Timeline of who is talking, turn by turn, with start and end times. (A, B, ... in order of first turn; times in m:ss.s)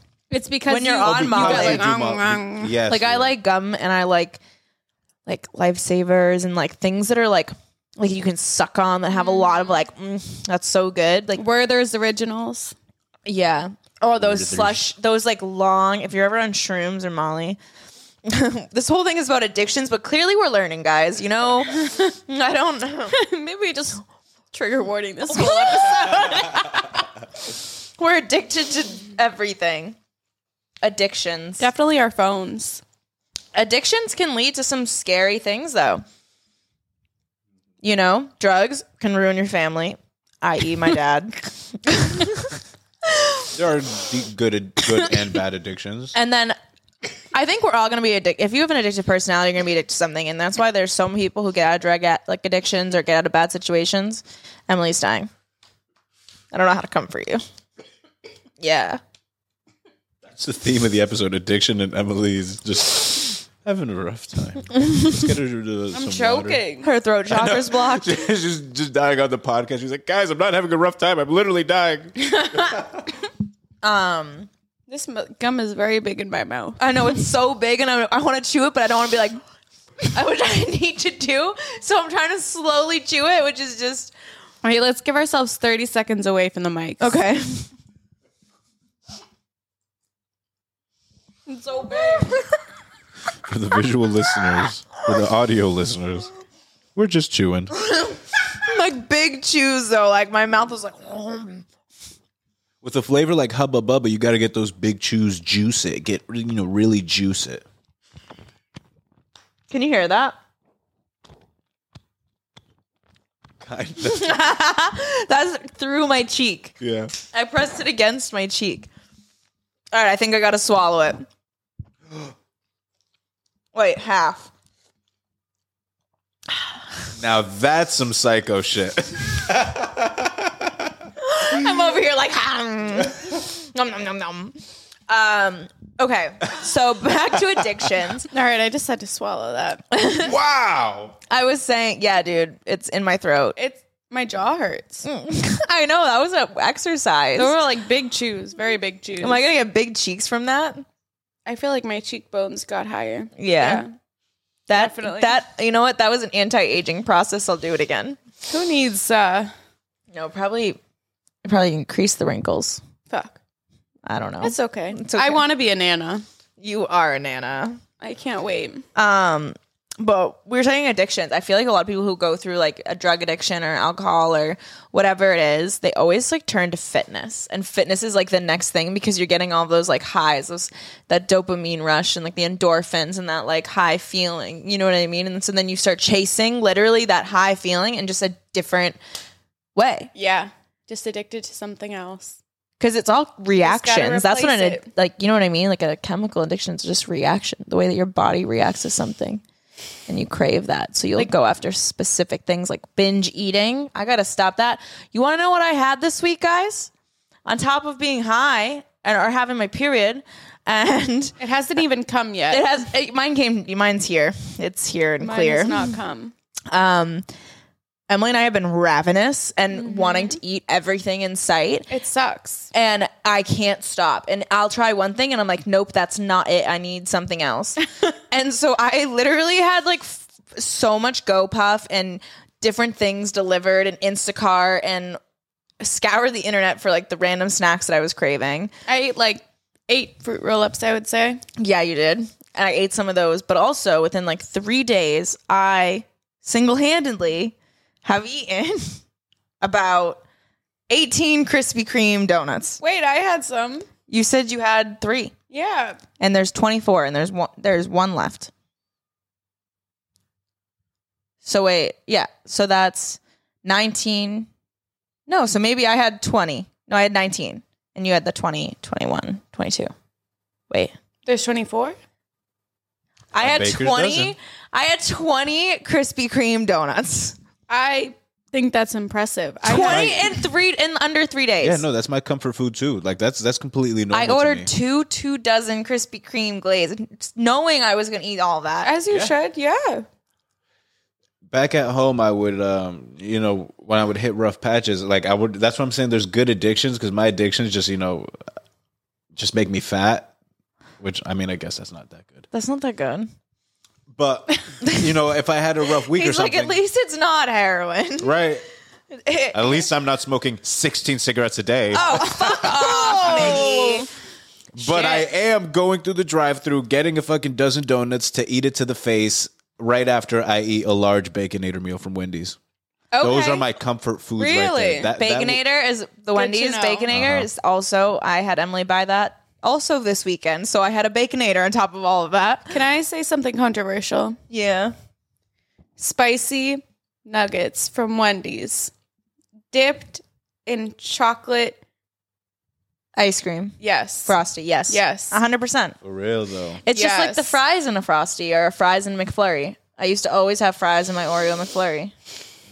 0:00.3-0:02.8 A
0:00.7-0:01.9 B
0:01.0-0:03.3 C
0:02.9-0:04.4 B
0:05.3-0:11.4 B
0:09.1-0:09.8 A
0:11.4-0:12.7 A
0:13.3-0:17.6 B
0:14.2-0:14.8 C
0:18.3-0:23.2 B
0:23.1-0:26.8 A
0:25.3-0:27.0 B
0:28.0-0:30.0 B
0:30.8-0:31.7 B
0:31.6-0:32.8 A
0:33.6-0:36.0 B
0:37.8-0:42.5 B
0:43.5-0:46.1 C
0:46.1-0:46.6 B
0:47.3-0:55.3 B
0:56.5-0:57.4 B
0:58.6-0:59.0 B
1:00.3-1:06.6 C
1:05.9-1:06.9 A
1:06.8-1:08.2 B
1:07.3-1:13.0 C
1:13.8-1:14.5 B
1:14.9-1:16.8 A
1:16.8-1:19.4 B
1:20.1-1:24.1 B
1:24.6-1:27.2 A
1:27.0-1:27.7 B
1:31.5-1:32.4 A
1:33.4-1:36.3 C
1:36.9-1:37.7 C
1:38.0-1:41.6 B
1:42.8-1:47.6 C
1:49.7-1:50.4 B
1:53.6-1:54.3 C
1:54.0-1:56.7 B
1:56.8-1:57.1 C
1:57.3-1:58.9 B
1:59.9-2:01.2 B
2:03.7-2:04.5 B
2:07.2-2:10.7 C
2:11.2-2:14.6 B
2:15.1-2:18.3 B
2:18.3-2:19.8 A
2:19.9-2:20.3 B
2:20.2-2:21.1 C
2:21.3-2:23.6 B
2:23.6-2:25.0 A
2:25.0-2:27.6 B
2:27.4-2:29.4 A
2:29.2-2:30.8 B
2:31.4-2:33.9 A
2:33.4-2:33.8 B
2:34.7-2:38.2 B
2:34.7-2:35.4 A
2:38.5-2:39.5 A
2:40.1-2:40.8 B
2:41.4-2:42.8 B
2:43.1-2:43.4 A
2:44.0-2:45.4 B
2:44.4-2:46.2 A
2:46.6-2:47.8 B
2:48.0-2:48.8 A
2:49.0-3:09.0 B
3:09.7-3:10.1 B
3:10.1-3:12.4 A
3:12.8-3:19.4 B
3:13.6-3:14.8 A
3:20.1-3:26.9 B
3:27.4-3:31.3 B
3:31.4-3:32.6 A
3:32.5-3:35.9 B
3:35.2-3:36.3 A
3:36.7-3:37.3 B
3:38.1-3:41.9 B
3:39.7-3:40.4 A
3:41.9-3:42.7 A
3:42.7-3:55.2 B
3:55.8-3:58.7 B
3:58.9-4:01.4 A
4:01.6-4:09.0 B
4:09.6-4:10.2 B
4:10.9-4:12.8 B
4:12.8-4:13.9 A
4:14.1-4:15.3 B
4:15.5-4:16.0 A
4:16.2-4:18.5 B
4:21.4-4:24.5 B
4:25.3-4:29.9 B
4:31.3-4:32.0 A
4:33.3-4:37.4 B
4:33.4-4:34.3 C
4:37.7-4:40.4 A
4:39.6-4:41.8 B
4:39.8-4:40.2 C
4:41.6-4:44.7 C
4:44.1-4:48.9 B
4:48.8-4:50.0 A
4:49.1-4:49.3 C
4:51.5-4:58.3 C
4:59.3-5:00.3 C
5:01.0-5:02.5 C
5:02.5-5:03.3 B
5:04.1-5:06.8 C
5:04.8-5:05.1 B
5:06.0-5:08.3 B
5:08.2-5:08.6 C
5:09.1-5:09.9 B
5:09.5-5:13.7 C
5:11.9-5:14.1 B
5:12.3-5:14.1 A
5:14.7-5:22.6 C
5:14.8-5:15.3 B
5:23.1-5:23.6 A
5:23.2-5:25.6 C
5:24.4-5:25.1 A
5:25.2-5:32.8 B
5:26.3-5:27.1 A
5:27.1-5:27.5 C
5:32.7-5:34.4 A
5:34.5-5:34.9 B
5:36.0-5:38.9 A
5:39.7-5:41.8 A
5:43.2-5:46.0 B
5:43.8-5:44.3 A
5:44.9-5:45.4 A
5:46.0-5:46.8 C
5:46.8-5:52.1 B
5:46.9-5:47.6 A